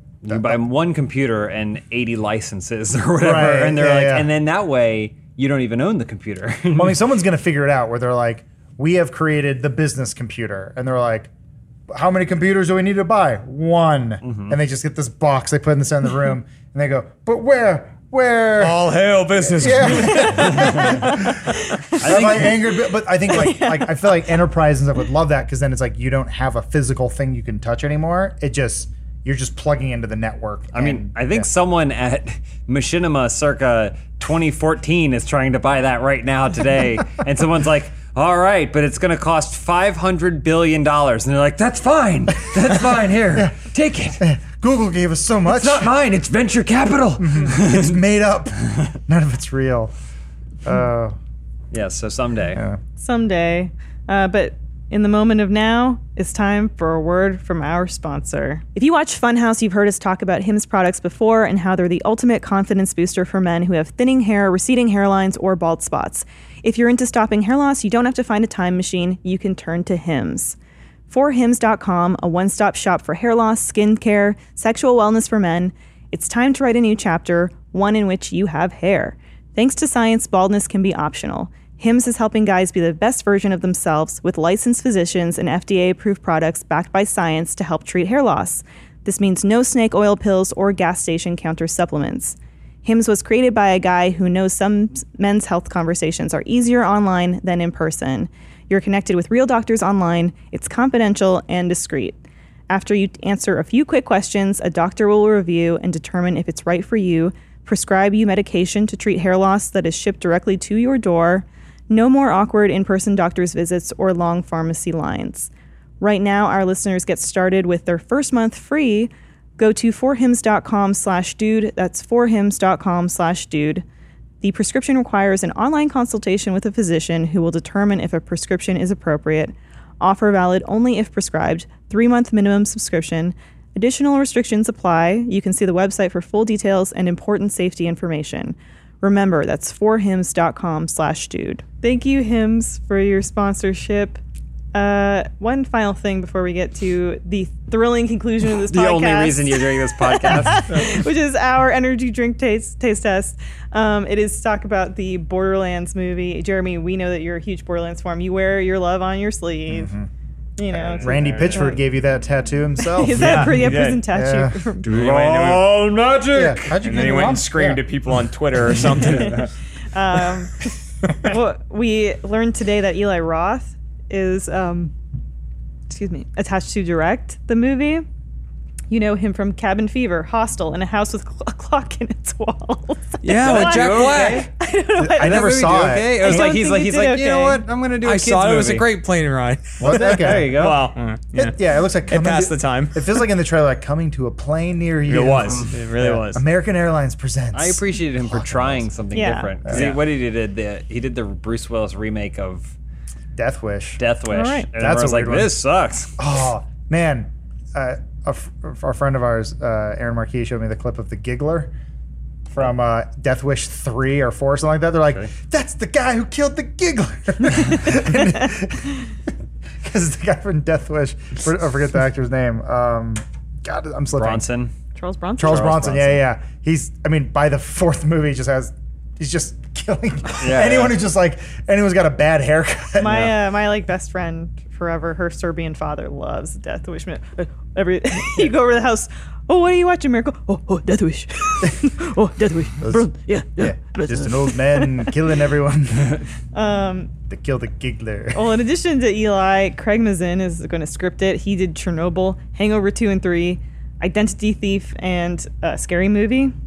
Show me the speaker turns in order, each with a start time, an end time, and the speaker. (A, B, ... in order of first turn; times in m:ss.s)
0:00.2-0:07.0 A
0:00.2-0:00.6 B
0:03.2-0:04.3 B
0:06.7-0:11.3 B
0:11.9-0:18.8 B
0:14.2-0:14.6 A
0:18.6-0:20.9 C
0:19.4-0:31.5 B
0:20.0-0:21.2 D
0:20.5-0:20.9 A
0:22.0-0:22.7 A
0:23.3-0:24.0 D
0:30.7-0:44.2 A
0:44.2-0:45.9 B
0:45.4-0:48.0 A
0:47.2-0:49.9 B
0:50.6-0:51.2 B
0:51.7-0:52.6 A
0:52.5-0:52.8 B
0:53.0-1:10.6 D
1:11.1-1:42.2 D
1:42.7-2:03.8 D
2:04.4-2:24.2 D
2:24.7-2:39.9 D
2:28.5-2:30.9 A
2:39.7-2:40.1 B
2:40.6-2:41.8 D
2:40.8-2:41.6 A
2:40.9-2:44.7 B
2:42.8-2:45.1 D
2:43.1-2:44.1 C
2:44.8-2:46.8 A
2:44.8-2:45.9 C
2:46.3-2:47.8 B
2:46.8-2:49.5 C
2:48.6-2:49.5 A
2:49.1-2:50.6 D
2:51.2-2:54.9 D
2:55.9-2:58.0 D
2:58.9-3:07.6 D
3:03.2-3:04.5 C
3:03.4-3:04.5 A
3:05.0-3:06.6 B
3:05.2-3:08.9 A
3:08.0-3:11.6 C
3:09.8-3:10.8 B
3:09.8-3:10.8 A
3:11.3-3:18.9 B
3:12.1-3:13.1 C
3:15.1-3:16.4 C
3:17.5-3:22.7 A
3:19.1-3:19.5 D
3:19.6-3:20.0 B
3:19.7-3:20.0 C
3:23.3-3:24.0 B
3:24.0-3:26.1 A
3:24.3-3:24.7 D
3:24.7-3:25.6 B
3:26.2-3:31.7 B
3:32.5-3:39.1 B
3:39.8-3:44.4 B
3:44.2-3:44.7 A
3:45.0-3:46.0 D
3:45.4-3:53.3 B
3:45.4-3:46.2 A
3:50.3-3:51.0 A
3:53.0-4:05.2 D
4:02.8-4:03.1 B
4:03.6-4:06.2 B
4:06.5-4:07.1 D
4:07.3-4:08.5 B
4:08.3-4:16.5 D